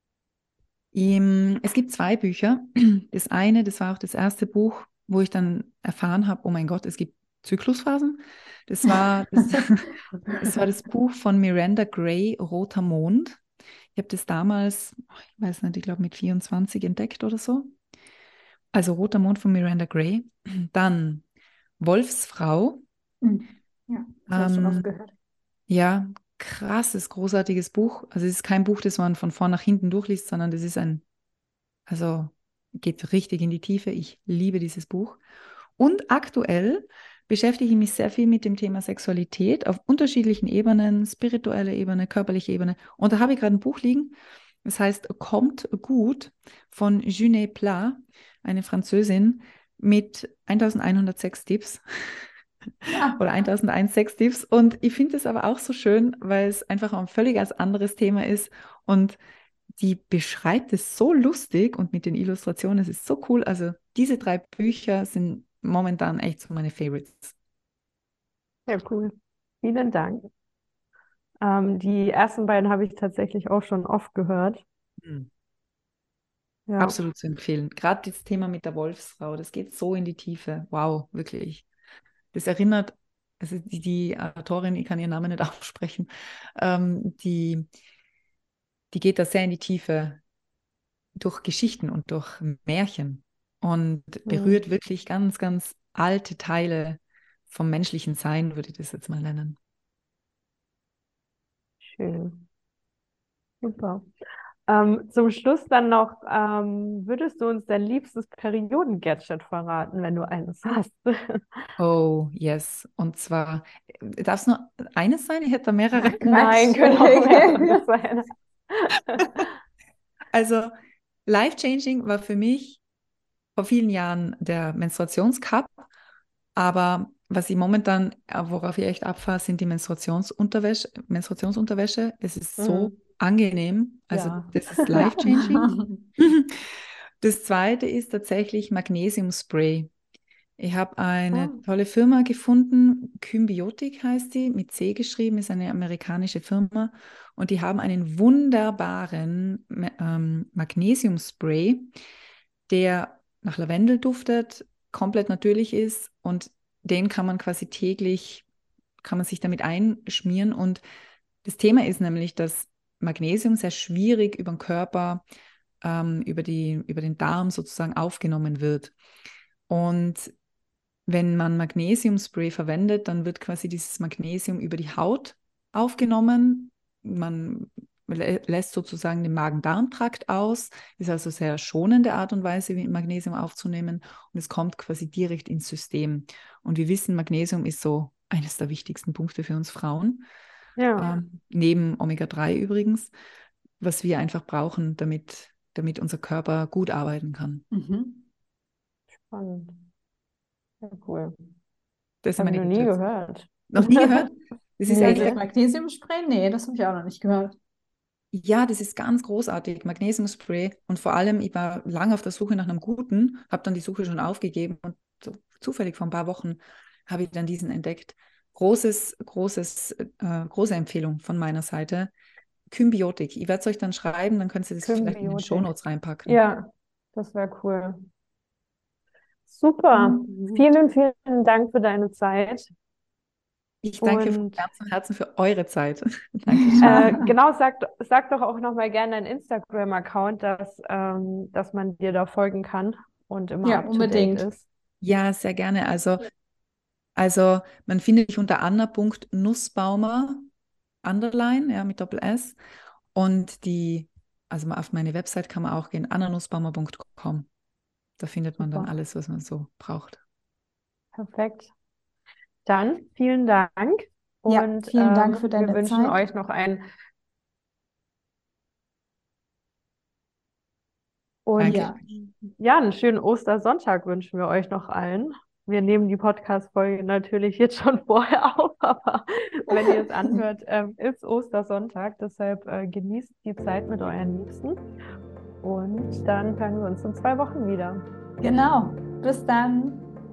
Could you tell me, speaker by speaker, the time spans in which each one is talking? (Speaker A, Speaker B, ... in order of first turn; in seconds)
Speaker A: 0.9-13.4, 13.9-17.7, 18.7-21.2, 21.8-22.8, 24.3-24.9, 25.7-31.0, 31.9-35.2, 35.8-52.3, 52.8-59.2, 59.8-67.4, 75.0-75.3, 76.8-81.7, 82.3-87.7, 88.9-90.2, 91.2-99.6, 111.8-116.6, 120.3-120.7, 121.3-122.8, 123.6-125.9, 126.6-136.7, 137.2-139.9, 140.6-151.9, 152.7-158.5, 159.0-160.8, 161.4-165.2, 165.8-168.9, 169.7-170.3, 171.1-190.2, 191.0-193.1, 193.8-197.7, 202.2-203.0, 203.7-205.4, 208.3-222.1, 222.7-226.4, 233.8-237.2, 245.0-246.2, 247.2-250.5, 251.0-252.6, 253.2-257.5, 258.2-260.2, 271.6-272.0
Speaker B: 23.2-25.1, 52.9-53.2, 116.2-117.8, 134.9-136.0, 197.7-198.3, 204.9-207.6, 230.1-230.6, 236.5-237.3, 243.6-244.5, 264.5-266.2, 271.6-272.0, 279.7-280.4, 288.4-290.1
Speaker C: 68.7-70.3, 71.4-74.6, 76.7-77.0, 94.3-94.6, 102.0-102.5, 103.6-104.1, 104.7-111.7, 116.0-119.5, 132.6-133.0, 134.1-135.2, 141.3-141.6, 190.8-191.1, 199.2-199.8, 200.8-201.3, 202.4-204.2, 204.9-205.4, 224.8-225.7, 226.3-228.1, 229.5-232.7, 234.0-234.7, 236.8-244.7, 258.6-258.9, 261.1-261.7, 262.6-266.9, 271.5-284.8, 285.6-288.0